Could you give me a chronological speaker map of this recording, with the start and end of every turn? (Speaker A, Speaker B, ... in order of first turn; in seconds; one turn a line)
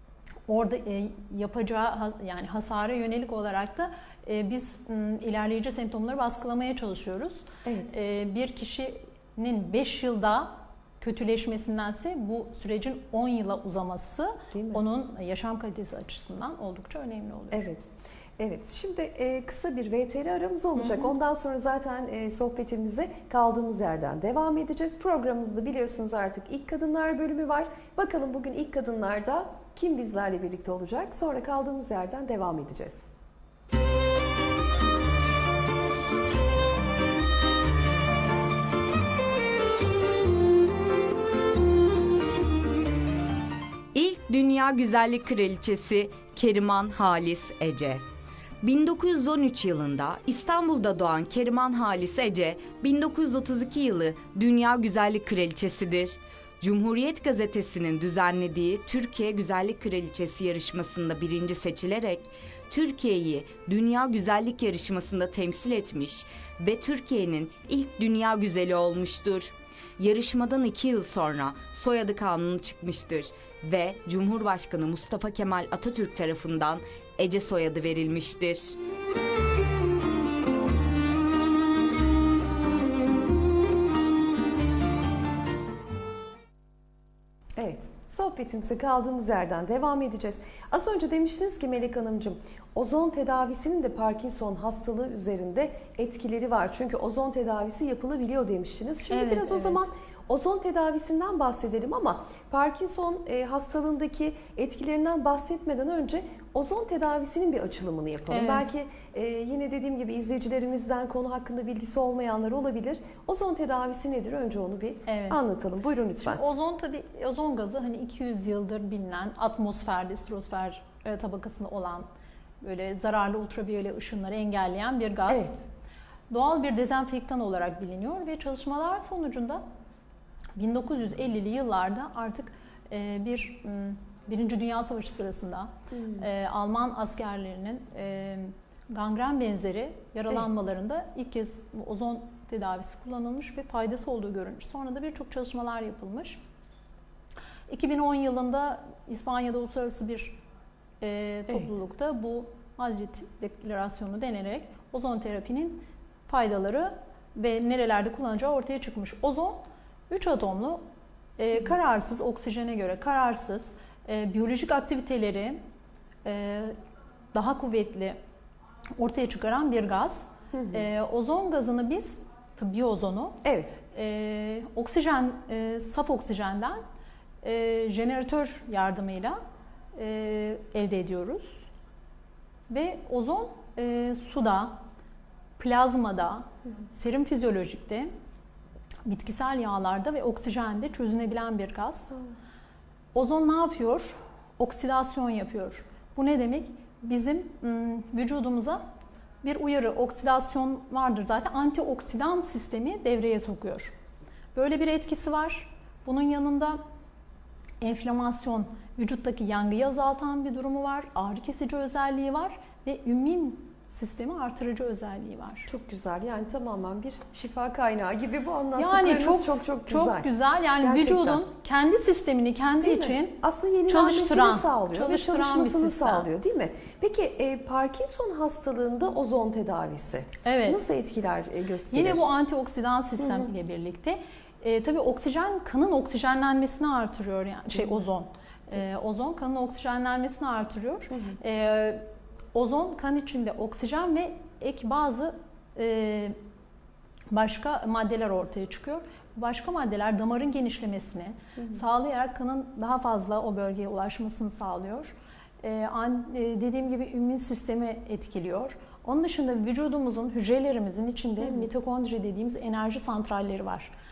Speaker A: 0.5-17.7
Speaker B: 7.6-7.9
Speaker B: 14.5-14.8
Speaker B: 17.5-33.0
Speaker A: 20.8-21.1
Speaker C: 43.9-48.0
Speaker C: 48.6-78.8
Speaker B: 87.6-116.4
Speaker A: 99.1-99.9
Speaker A: 108.3-108.7
Speaker A: 115.1-115.4
Speaker A: 116.2-122.1
Speaker A: 122.6-125.6
Speaker B: 125.3-125.5
Speaker A: 126.3-129.6
Speaker A: 130.6-146.4
Speaker B: 135.9-136.3
Speaker A: 147.7-150.4
Speaker A: 151.0-160.8
Speaker A: 161.4-165.6
Speaker A: 166.2-166.8
Speaker A: 167.3-168.2
Speaker A: 169.0-176.8
Speaker B: 170.5-170.8
Speaker B: 173.4-173.8
Speaker A: 177.4-179.4
Speaker A: 179.9-181.7
Speaker A: 182.7-184.8
Speaker A: 185.6-188.1
Speaker A: 189.1-192.2
Speaker A: 193.1-198.8
Speaker A: 199.4-203.9
Speaker A: 204.5-206.8
Speaker A: 207.8-215.7
Speaker B: 215.7-220.3
Speaker A: 218.8-226.3
Speaker B: 220.8-221.4
Speaker B: 222.8-232.3
Speaker A: 230.4-230.8
Speaker A: 231.9-246.3
Speaker B: 233.2-233.5
Speaker B: 241.1-241.4
Speaker A: 247.3-263.9
Speaker B: 261.4-261.7